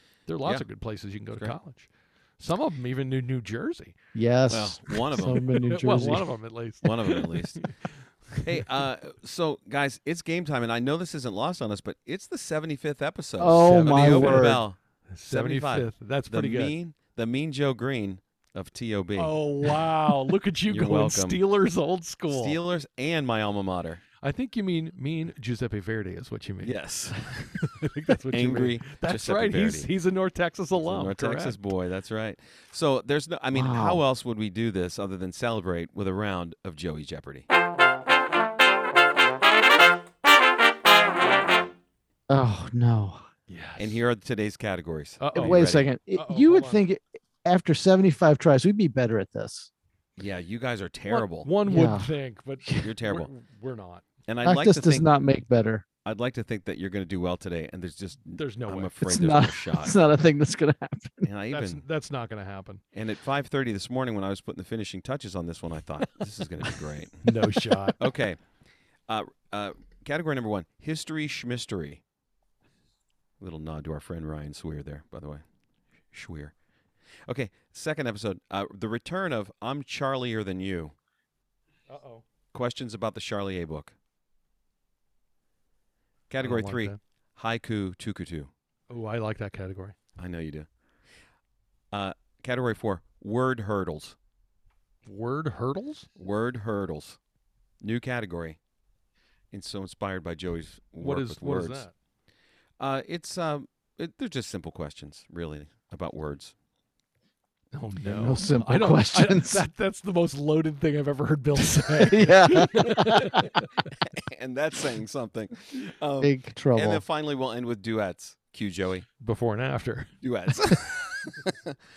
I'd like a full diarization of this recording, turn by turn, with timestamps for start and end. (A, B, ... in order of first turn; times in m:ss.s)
0:00.2-0:04.0 A
0:01.3-0:01.6 B
0:04.2-0:06.3 C
0:04.5-0:05.5 B
0:05.2-0:08.5 A
0:06.8-0:07.7 B
0:08.4-0:19.9 B
0:13.4-0:14.6 C
0:13.6-0:14.6 A
0:15.1-0:16.7 A
0:19.2-0:22.6 A
0:20.7-0:21.4 B
0:22.3-0:24.0 B
0:24.2-0:26.8 A
0:26.6-0:27.7 B
0:27.6-0:31.6 A
0:28.3-0:29.9 B
0:30.8-0:37.5 B
0:33.5-0:34.0 C
0:42.3-0:43.2 C
0:43.5-0:44.0 A
0:43.8-0:45.9 B
0:45.2-0:46.8 A
0:45.4-0:49.7 C
0:50.2-0:51.5 B
0:51.1-0:54.1 A
0:51.7-0:52.1 C
0:52.8-0:53.3 B
0:54.3-0:55.1 B
0:54.4-0:55.8 C
0:56.0-1:00.0 B
0:58.4-0:59.1 A
0:59.0-1:01.3 C
1:01.2-1:01.8 B
1:01.5-1:02.8 A
1:02.9-1:08.4 B
1:07.2-1:08.0 A
1:09.1-1:12.0 B
1:13.4-1:15.4 B
1:16.1-1:16.5 B
1:17.3-1:21.0 B
1:21.9-1:22.2 A
1:22.5-1:23.9 B
1:26.3-1:28.5 B
1:26.4-1:27.0 A
1:28.9-1:30.0 A
1:30.2-1:30.7 B
1:31.9-1:34.2 B
1:35.1-1:36.1 A
1:36.2-1:37.2 B
1:37.8-1:38.6 B
1:39.5-1:41.9 B
1:41.0-1:41.9 A
1:42.8-1:46.5 B
1:47.7-1:53.7 A
1:48.0-1:49.6 C
1:52.0-1:53.5 C
1:54.1-1:59.1 B
1:56.2-1:57.0 C
1:59.2-2:00.1 A
2:00.2-2:01.8 B